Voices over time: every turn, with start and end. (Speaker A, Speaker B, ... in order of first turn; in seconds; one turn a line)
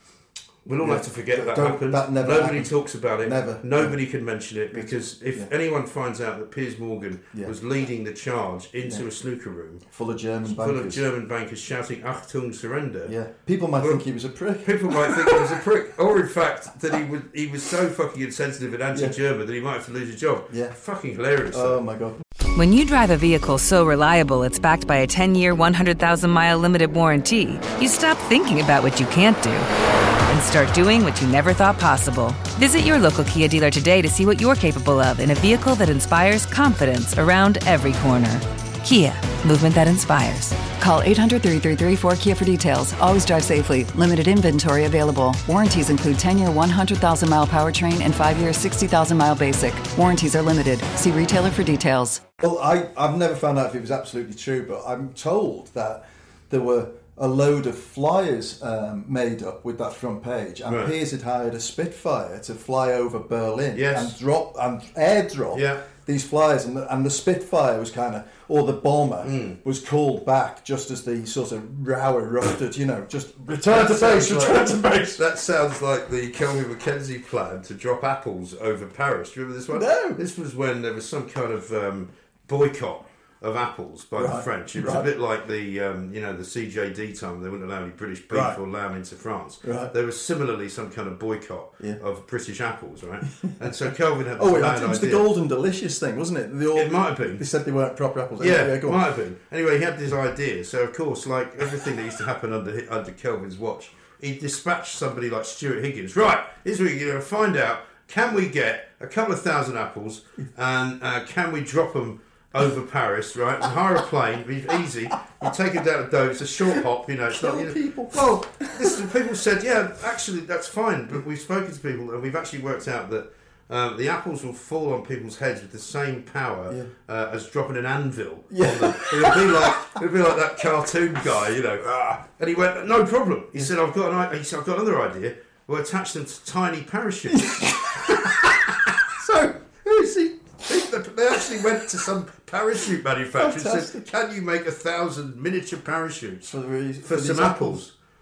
Speaker A: 0.6-9.8
Speaker B: 0.8-3.9
Speaker B: 4.7-5.5
Speaker B: 9.9-11.0
Speaker A: 10.4-13.1
Speaker B: 13.1-15.6
Speaker A: 14.6-21.8
Speaker B: 20.5-20.7
Speaker B: 21.5-22.2
Speaker C: 22.5-29.7
Speaker C: 30.3-40.7
Speaker D: 40.7-52.2
Speaker B: 52.4-75.2
Speaker A: 60.6-60.9
Speaker A: 63.7-64.1
Speaker A: 65.5-65.8
Speaker A: 69.2-69.6
Speaker A: 73.7-95.3
Speaker B: 79.7-80.2
Speaker B: 84.2-85.1
Speaker B: 88.3-88.6
Speaker B: 89.6-89.9
Speaker B: 94.4-99.0
Speaker A: 96.7-97.4
Speaker A: 98.4-138.6
Speaker B: 117.3-119.0
Speaker B: 128.5-129.9
Speaker B: 131.9-132.1
Speaker B: 137.3-138.6
Speaker B: 139.2-140.3
Speaker A: 139.9-146.5
Speaker B: 143.4-144.1
Speaker B: 146.4-147.8
Speaker A: 147.0-147.9